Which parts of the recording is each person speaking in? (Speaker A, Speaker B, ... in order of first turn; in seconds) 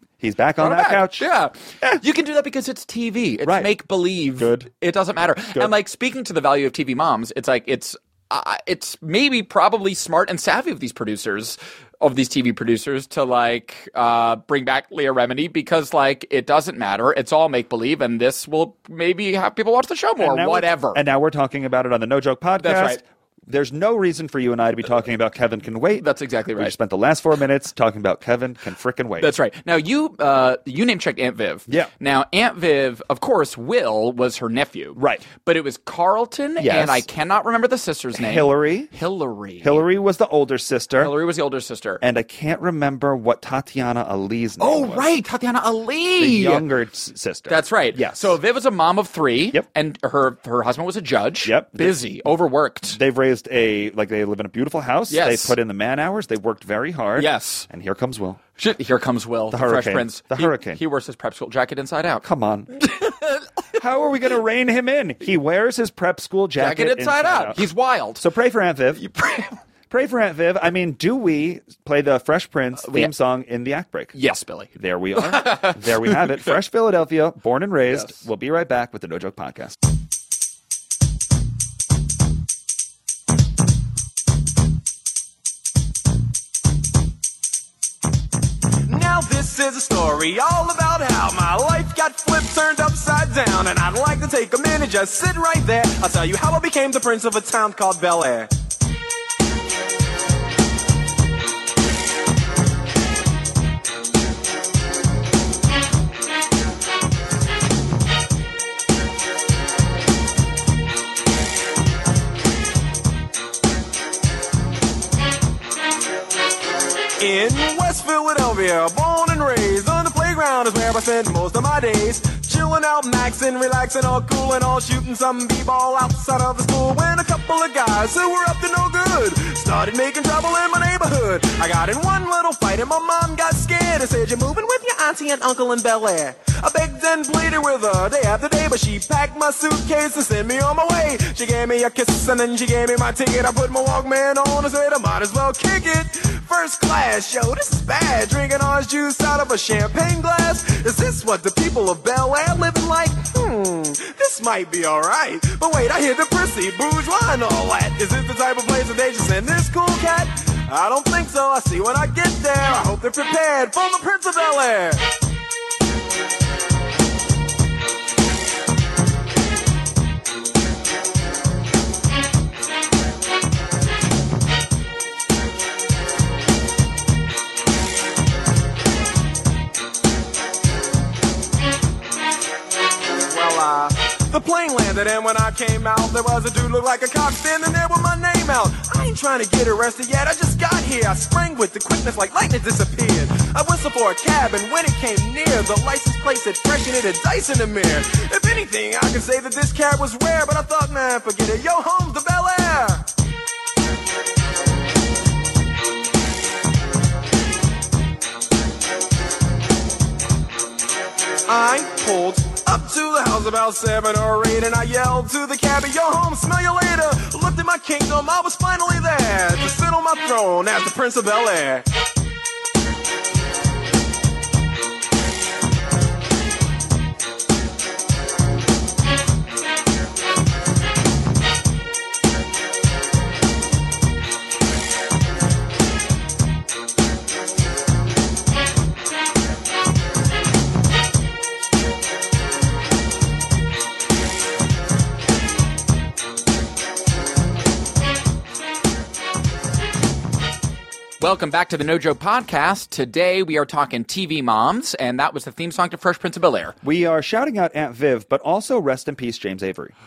Speaker A: 0.2-1.3, 4.4-4.7, 20.2-29.3, 35.0-35.3, 36.6-37.0, 38.1-38.9, 39.6-41.1, 42.0-45.1, 46.2-48.4, 51.4-52.0, 52.9-58.4, 59.5-60.8, 62.2-62.7, 63.8-67.6, 68.2-69.0, 69.9-74.2, 74.8-79.8, 256.8-259.9
Speaker B: 0.6-21.0, 22.6-23.0, 26.0-26.7, 29.2-39.8, 41.0-42.0, 44.6-46.7, 47.5-53.0, 55.1-55.6, 57.2-57.7, 58.6-63.5, 66.6-68.2, 69.0-69.6, 72.8-73.1, 74.1-76.5, 77.9-78.2, 251.2-256.8
Speaker C: 88.9-98.5, 117.2-165.1, 183.3-203.1, 211.5-221.8